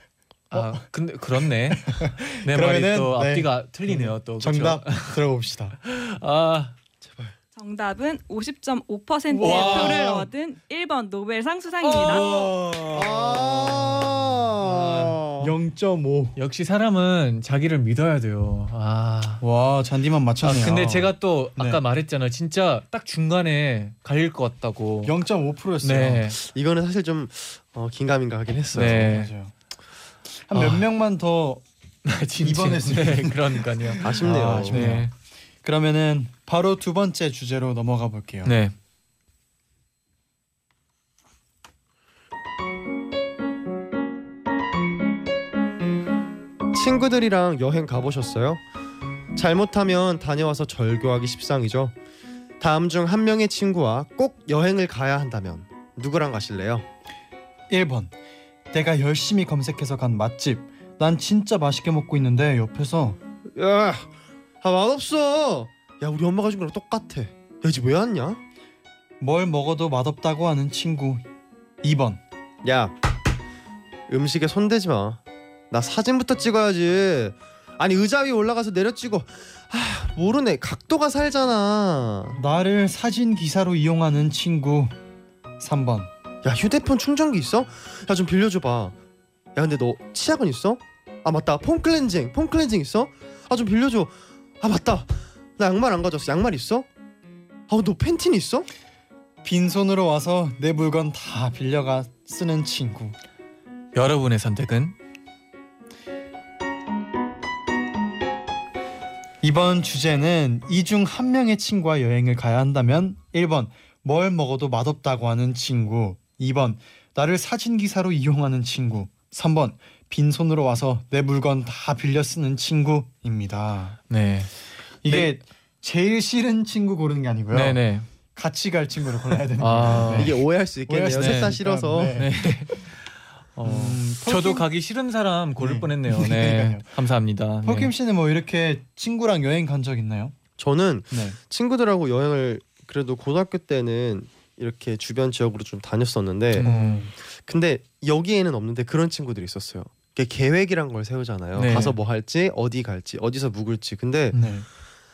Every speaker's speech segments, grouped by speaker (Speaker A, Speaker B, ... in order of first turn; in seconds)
Speaker A: 0.5-5.2, 5.8-6.8, 9.4-10.2, 12.1-12.5, 14.6-15.2, 16.4-19.4, 20.4-25.1, 25.8-26.4, 28.8-29.3, 30.5-30.8, 32.0-35.1, 38.5-38.7, 103.9-105.0, 124.1-124.5, 125.0-125.3, 127.5-128.1, 129.6-130.3, 131.2-131.5, 132.2-137.9, 146.6-147.1, 151.6-151.9
Speaker B: 0.5-0.8, 1.7-5.8, 9.3-10.3, 11.8-14.3, 15.3-16.4, 19.4-21.8, 25.0-26.4, 28.8-29.5, 30.5-31.6, 32.4-38.5, 57.7-58.1, 58.7-63.2, 69.2-71.2, 71.8-72.2, 82.3-85.0, 85.6-86.1, 99.4-103.2, 109.4-124.0, 125.0-127.8, 128.3-132.3, 133.6-134.7, 135.6-137.0, 137.6-140.4, 141.1-141.4, 146.6-147.1, 151.7-151.9, 154.3-154.7
Speaker C: 7.0-7.3, 12.9-15.5, 26.4-29.1, 34.0-34.9, 46.7-48.6, 49.4-51.9, 52.6-56.9, 63.5-64.1, 64.6-68.4, 72.6-72.9, 74.1-75.2, 75.7-82.4, 86.4-89.0, 89.5-96.9, 97.7-98.7, 130.1-132.2, 140.6-146.7, 147.2-154.3
Speaker D: 7.6-12.3